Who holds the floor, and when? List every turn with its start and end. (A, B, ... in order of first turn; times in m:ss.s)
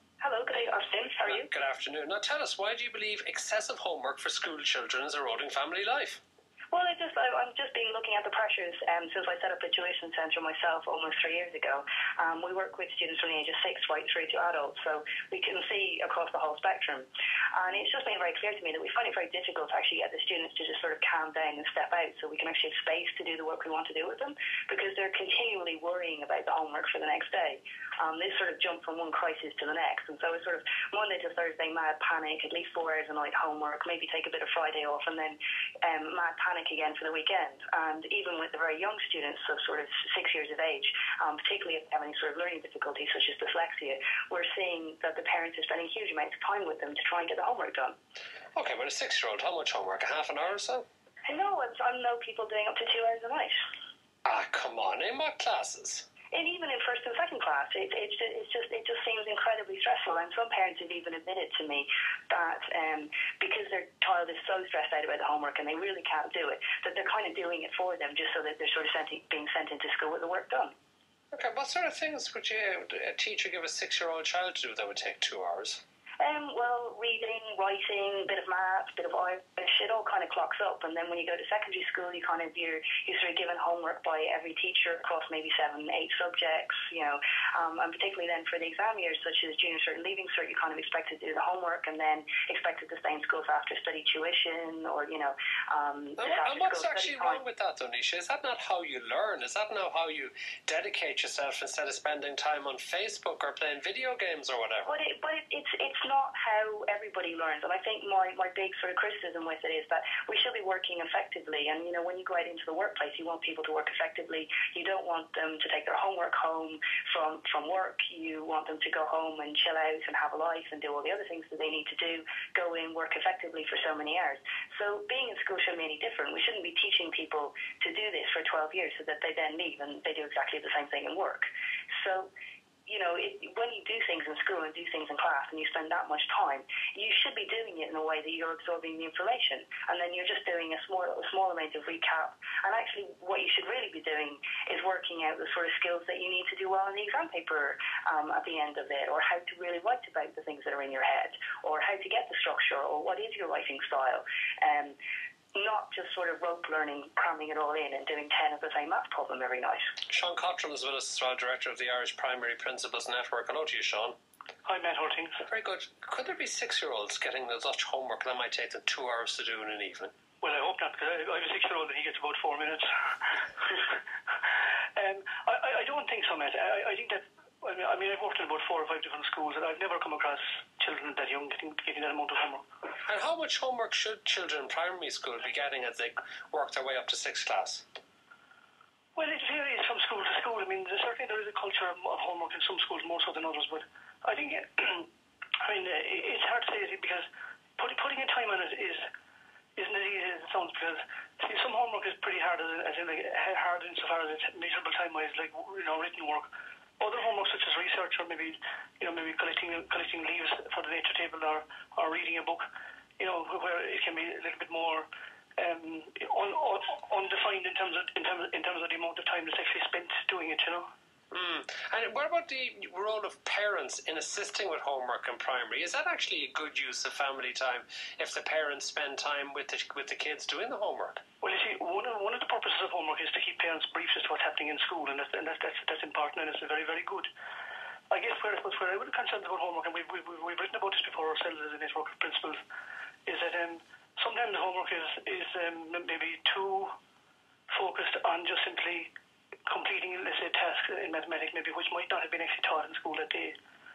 0:00.2-0:01.5 A
0:01.3-0:06.2 B
0:06.7-0:48.0 A
0:48.6-0:50.9 B
0:51.3-0:53.6 A
0:54.2-0:56.1 B
0:56.3-1:10.8 A
1:11.3-1:15.8 B
1:16.2-1:37.4 A
1:36.2-1:44.9 B
1:44.9-2:12.3 A
2:12.9-2:35.0 A
2:35.5-2:39.9 A
2:40.1-2:44.2 B
2:44.6-2:45.4 C
2:45.4-2:50.1 B
2:50.4-2:54.0 C
2:55.0-3:02.6 C
3:03.0-3:07.8 B
3:09.2-3:19.1 C
3:19.8-3:32.6 C
3:33.2-3:40.9 C
3:41.3-3:51.2 B
3:51.4-3:57.3 C
3:58.1-4:02.6 C
4:03.3-4:06.9 C
4:07.7-4:09.1 C
4:09.7-4:13.6 C